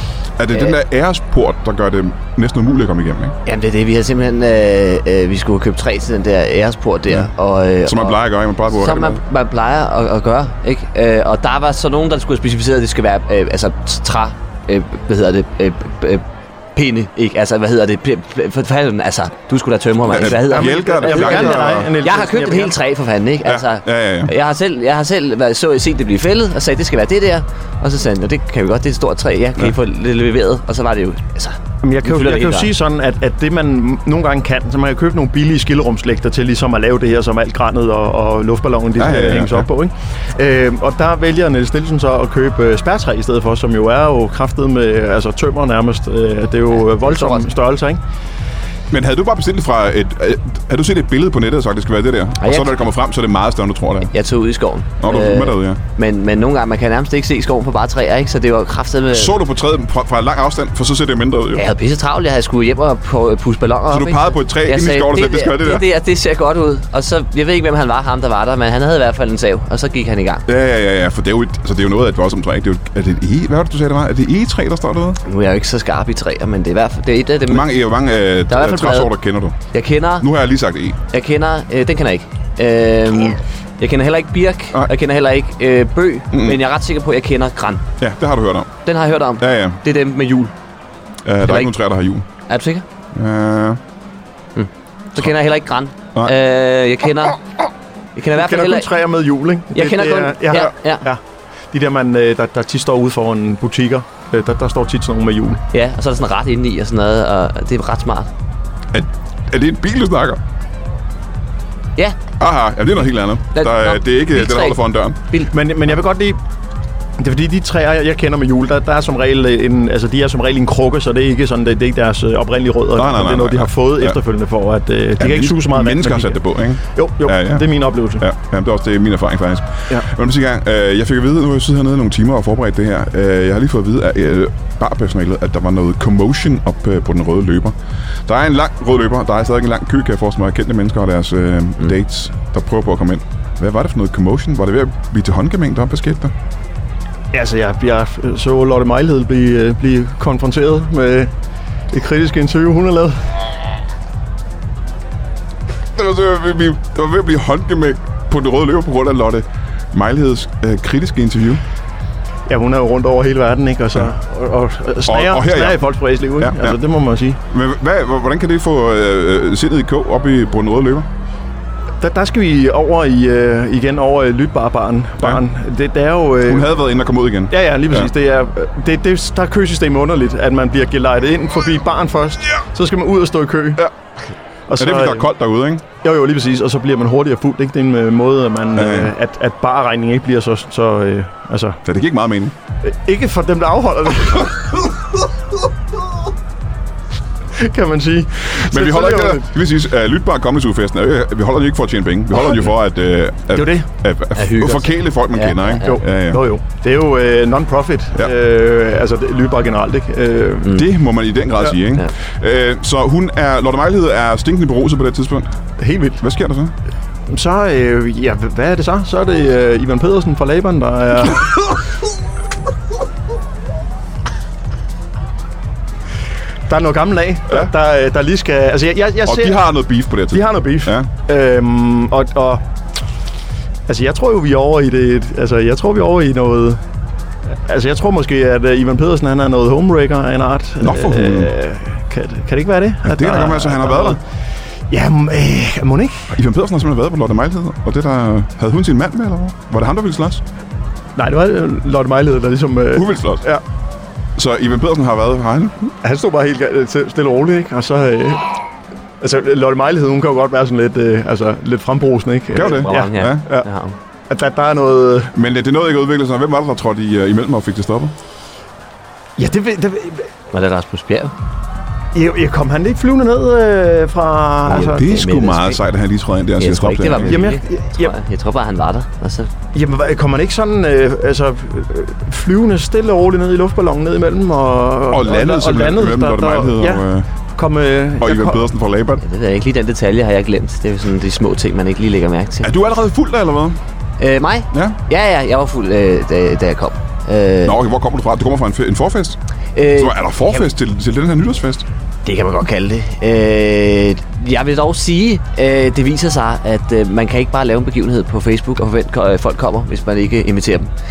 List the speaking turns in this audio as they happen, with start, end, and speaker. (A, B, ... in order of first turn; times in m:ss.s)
0:00.4-0:03.4 A
0:03.4-0:16.2 B
0:07.8-0:09.2 A
0:16.8-0:32.7 B
0:20.0-0:21.9 A
0:20.4-0:22.7 C
0:23.4-0:24.3 A
0:31.8-0:48.0 C
0:39.0-0:39.7 A
0:46.7-0:47.5 B
0:48.9-0:54.1 A
0:52.4-0:52.7 B
0:54.1-0:59.4 B
0:55.0-0:55.8 A
0:59.1-1:01.6 A
1:01.5-1:10.4 B
1:03.9-1:05.9 A
1:10.5-1:15.2 A
1:15.2-1:17.8 B
1:17.5-1:19.6 A
1:18.5-1:19.1 B
1:19.7-1:20.3 B
1:20.2-1:21.0 A
1:21.1-1:27.8 B
1:26.3-1:26.6 A
1:28.0-1:28.7 A
1:28.8-1:30.5 B
1:29.4-1:29.8 A
1:31.2-1:32.2 A
1:31.4-1:31.7 B
1:32.5-1:32.8 B
1:33.1-1:33.8 A
1:34.6-1:37.4 B
1:38.2-1:38.9 B
1:38.3-1:41.2 C
1:39.7-1:41.0 B
1:41.7-1:45.6 C
1:45.7-1:48.3 B
1:48.9-1:50.4 A
1:52.4-1:55.2 A
1:53.5-1:55.5 B
1:55.5-1:56.4 C
1:57.2-2:06.4 C
2:03.0-2:04.2 A
2:05.2-2:07.7 A
2:06.9-2:08.2 C
2:08.2-2:26.3 A
2:27.3-2:31.3 C
2:31.9-2:33.2 C
2:36.0-2:41.6 A
2:42.5-2:47.4 C
2:45.0-2:45.8 A
2:46.4-2:46.8 A
2:47.5-2:51.1 A
2:52.0-2:56.8 C
2:56.4-2:58.1 A
2:57.5-3:03.8 C
3:04.7-3:05.3 C
3:04.8-3:05.8 A
3:06.0-3:11.8 C
3:08.8-3:09.1 A
3:11.8-3:12.5 A
3:12.8-3:14.9 C
3:17.6-3:19.5 C
3:18.5-3:26.4 A
3:23.5-3:23.9 C
3:24.3-3:25.9 B
3:25.8-3:30.8 C
3:30.7-3:35.5 A
3:35.8-3:36.2 C
3:36.2-3:36.7 A
3:37.3-3:41.8 C
3:46.7-3:49.7 C
3:49.2-3:51.1 A
3:50.3-3:52.6 C
3:53.9-3:56.8 C
3:57.6-4:04.2 C
4:00.8-4:01.5 A
4:03.0-4:04.2 A
4:04.9-4:06.3 C
4:06.3-4:10.4 A
4:11.2-4:13.6 C
4:12.9-4:13.4 A
4:14.4-4:15.8 A
4:16.0-4:18.6 C
4:19.2-4:23.7 C
4:22.5-4:23.4 A
4:22.6-4:24.0 B
4:24.3-4:25.3 C
4:25.3-4:28.1 A
4:29.4-4:30.3 C
4:30.5-4:31.3 B
4:32.1-4:35.1 C
4:34.7-4:35.8 B
4:34.7-4:37.4 A
4:36.6-4:39.5 B
4:37.2-4:38.1 C
4:39.7-4:48.7 C
4:45.1-4:47.3 A
4:48.2-4:49.2 A
4:49.2-4:52.7 B
4:52.6-4:53.8 A
4:54.2-4:57.8 B
4:54.7-4:55.0 A
4:57.6-4:59.4 A
4:59.7-5:00.6 B
4:59.9-5:01.8 A
5:02.2-5:10.9 B